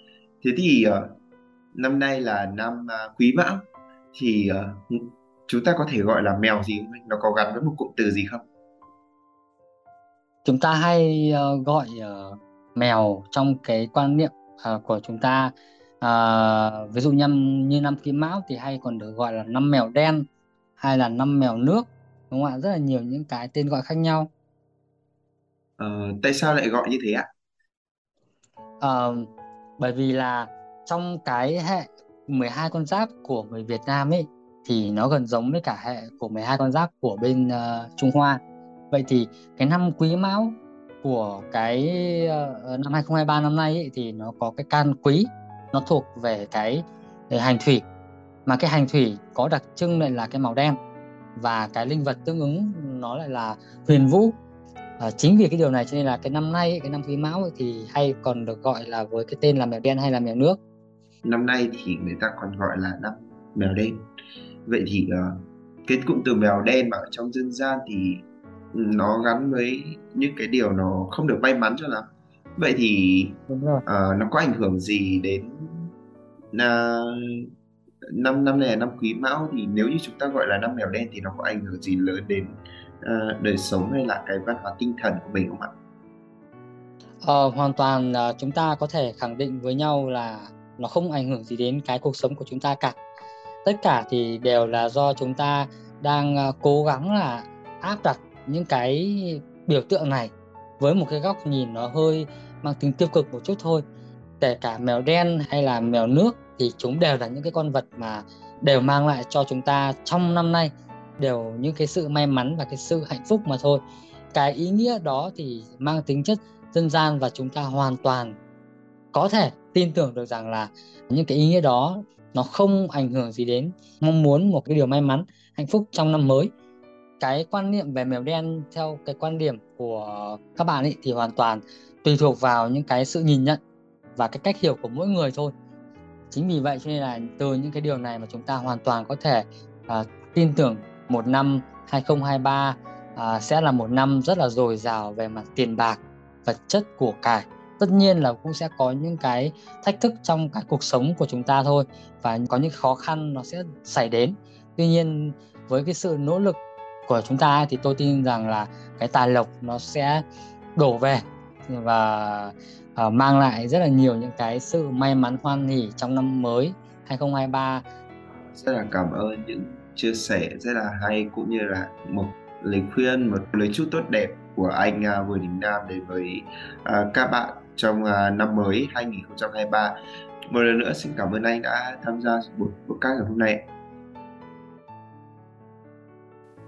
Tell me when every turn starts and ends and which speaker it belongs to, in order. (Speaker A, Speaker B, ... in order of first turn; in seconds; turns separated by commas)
Speaker A: 0.4-1.2, Speaker A: 1.7-8.4, Speaker B: 10.4-20.3, Speaker B: 20.8-24.3, Speaker A: 25.8-27.3, Speaker B: 28.8-38.4, Speaker B: 38.9-47.9, Speaker B: 48.5-50.8, Speaker B: 51.4-54.4, Speaker B: 55.0-60.6, Speaker A: 61.2-64.0, Speaker A: 64.7-75.9, Speaker B: 73.5-73.8, Speaker A: 76.5-77.5, Speaker A: 78.1-85.7, Speaker B: 87.2-93.0, Speaker B: 93.6-103.8, Speaker B: 104.4-118.4, Speaker B: 119.1-126.5, Speaker B: 127.2-133.6, Speaker B: 134.2-135.5, Speaker B: 136.3-160.2, Speaker B: 160.8-167.8, Speaker A: 168.5-180.0, Speaker A: 180.5-183.7